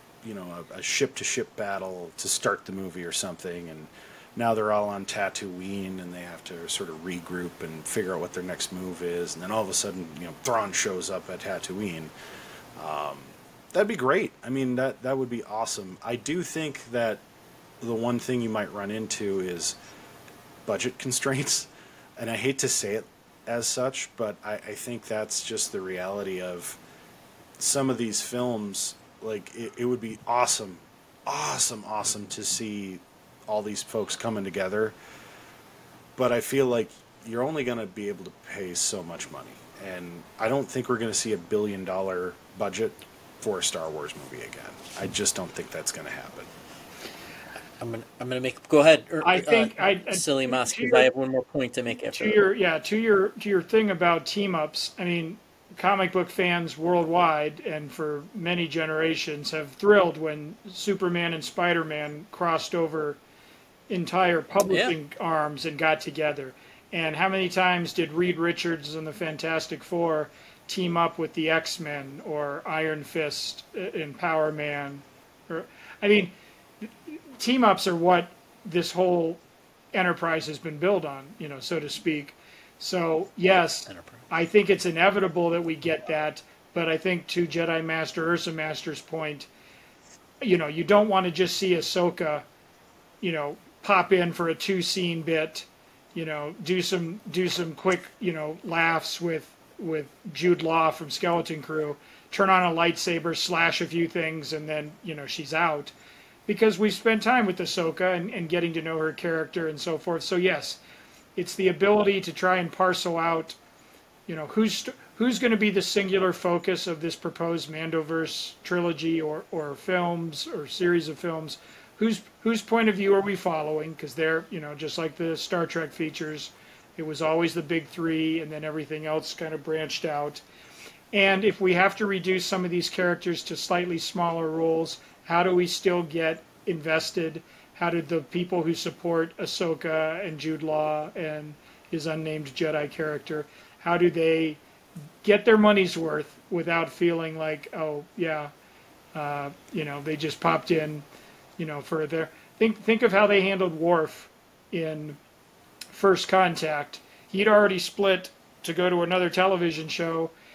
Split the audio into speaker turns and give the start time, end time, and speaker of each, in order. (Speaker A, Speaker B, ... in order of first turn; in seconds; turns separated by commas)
Speaker A: 0.2-12.1, Speaker A: 12.8-17.2, Speaker A: 17.8-19.8, Speaker A: 20.7-26.8, Speaker A: 27.6-35.0, Speaker A: 36.2-46.5, Speaker B: 47.8-52.5, Speaker C: 49.2-51.1, Speaker C: 52.1-63.2, Speaker C: 63.9-79.4, Speaker B: 64.7-64.9, Speaker C: 79.9-89.5, Speaker B: 83.9-84.2, Speaker C: 90.4-92.4, Speaker C: 93.2-105.9, Speaker C: 106.5-110.8, Speaker C: 111.4-113.6, Speaker C: 114.3-130.4, Speaker C: 131.1-144.6, Speaker C: 145.2-148.5, Speaker C: 149.1-151.1, Speaker C: 151.6-155.2, Speaker C: 155.9-160.3